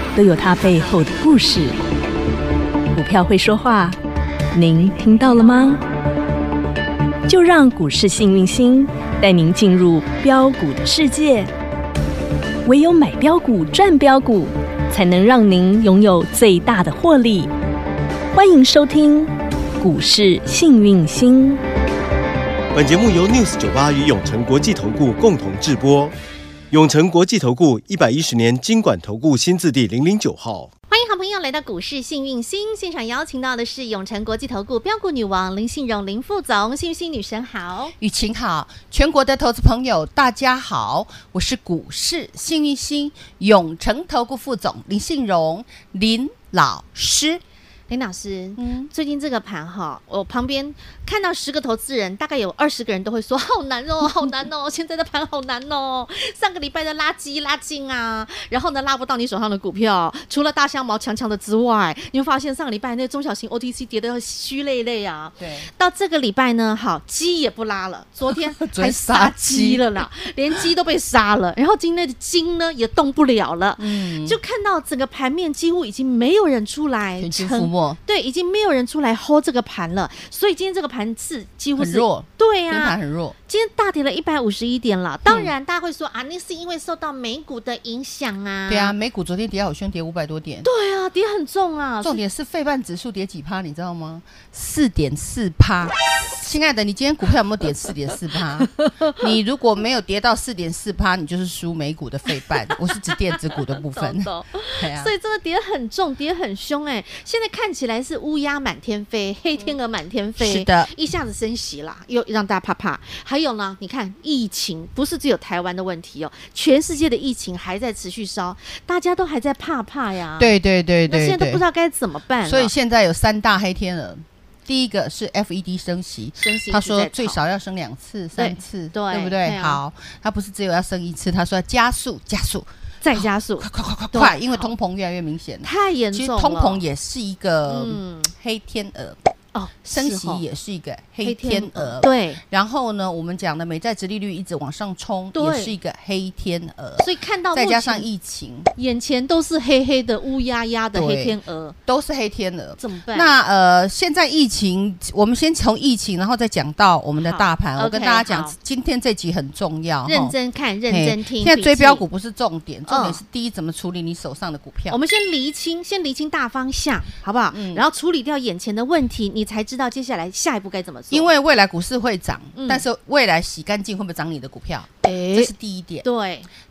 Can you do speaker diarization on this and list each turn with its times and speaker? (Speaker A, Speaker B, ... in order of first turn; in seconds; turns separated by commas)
Speaker A: 0.2-1.8, Speaker A: 2.9-4.0, Speaker A: 4.5-5.8, Speaker A: 7.3-11.5, Speaker A: 12.7-17.5, Speaker A: 18.3-21.6, Speaker B: 22.7-26.1, Speaker B: 26.7-30.7, Speaker C: 30.9-37.9, Speaker D: 38.0-47.4, Speaker C: 47.9-82.9, Speaker D: 48.6-48.9, Speaker D: 65.4-65.7, Speaker D: 68.3-69.8, Speaker D: 73.8-74.4, Speaker D: 77.2-78.0, Speaker D: 81.8-83.3, Speaker C: 83.5-88.9, Speaker D: 85.2-85.5, Speaker D: 88.7-90.7, Speaker C: 90.6-92.2, Speaker D: 92.0-105.1, Speaker C: 103.4-120.5, Speaker D: 110.4-110.9, Speaker D: 120.4-121.6, Speaker C: 121.1-122.7, Speaker D: 122.4-139.2, Speaker C: 126.4-127.4, Speaker C: 128.4-129.8, Speaker C: 133.0-134.7, Speaker C: 135.6-136.8, Speaker C: 137.7-138.3, Speaker C: 139.6-140.4, Speaker D: 139.9-148.7, Speaker C: 141.2-142.4, Speaker C: 145.3-145.8, Speaker C: 147.0-148.1, Speaker C: 148.8-151.8, Speaker D: 150.9-160.3, Speaker C: 152.8-153.3, Speaker C: 157.2-158.6, Speaker C: 160.1-162.0, Speaker D: 160.9-165.0, Speaker C: 162.9-163.2, Speaker C: 164.9-171.3, Speaker D: 167.5-167.8, Speaker D: 171.1-176.1, Speaker C: 172.6-172.8, Speaker C: 175.0-175.5, Speaker C: 176.0-176.5